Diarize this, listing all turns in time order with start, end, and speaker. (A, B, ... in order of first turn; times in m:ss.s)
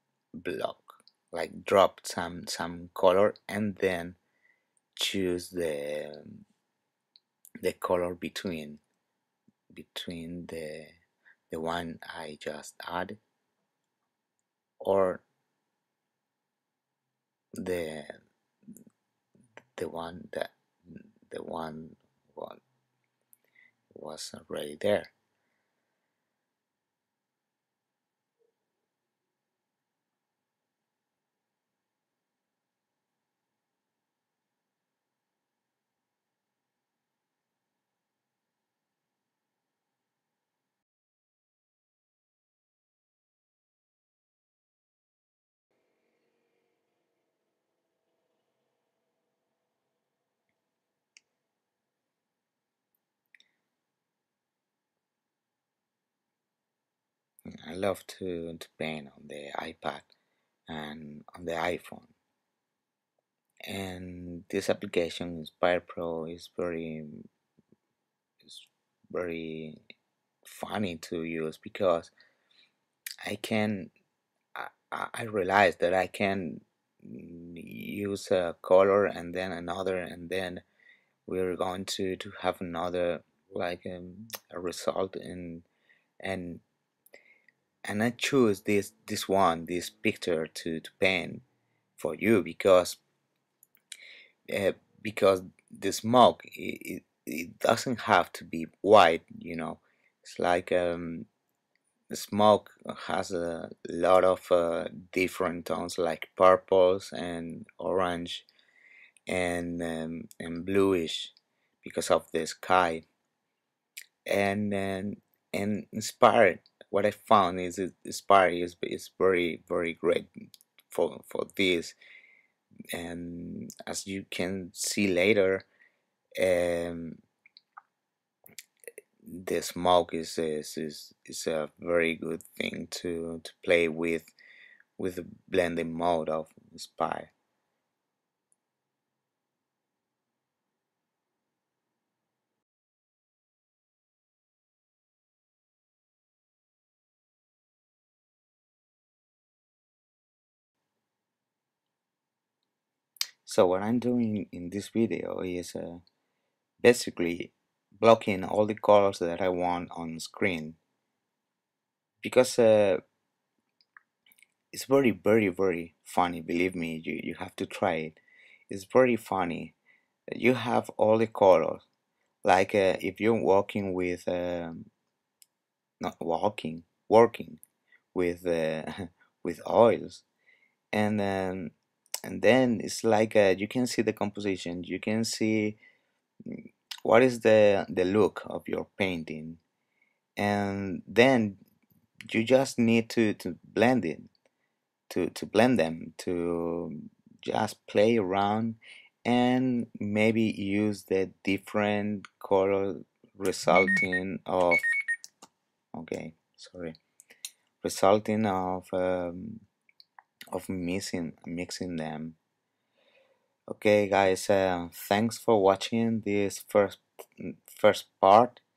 0:00.4-0:04.2 A
0:05.0-0:06.4 A
0:07.6-0:08.8 A
0:09.7-0:11.0 A
0:11.5-0:13.2 A
0:14.8-0:15.2 A
0:17.6-0:18.2 A
0:19.8-0:22.6 A
0:23.9-0:25.1 A
0:57.5-1:00.1 A
1:00.7-1:02.1 A
1:03.6-1:07.3 A
1:08.4-1:09.8 A
1:10.4-1:12.1 A
1:13.2-1:13.9 A
1:14.5-1:20.6 A
1:21.3-1:25.6 A
1:26.2-1:26.6 A
1:27.8-1:31.4 A
1:32.0-1:33.0 A
1:34.5-1:41.3 A
1:42.1-1:48.5 A
1:49.3-1:53.1 A
1:54.2-2:00.3 A
2:00.9-2:02.0 A
2:02.9-2:05.6 A
2:06.4-2:07.2 A
2:09.2-2:14.3 A
2:15.0-2:17.3 A
2:33.4-2:36.0 A
2:36.8-2:40.8 A
2:42.2-2:43.0 A
2:44.7-2:48.2 A
2:48.7-2:49.8 A
2:50.3-2:51.8 A
2:52.4-2:54.9 A
2:56.0-2:57.6 A
2:58.1-3:00.2 A
3:00.9-3:01.7 A
3:02.2-3:05.8 A
3:06.4-3:09.6 A
3:10.4-3:11.6 A
3:12.3-3:14.3 A
3:15.1-3:24.8 A
3:25.9-3:27.0 A
3:27.8-3:29.6 A
3:30.5-3:32.4 A
3:33.7-3:38.6 A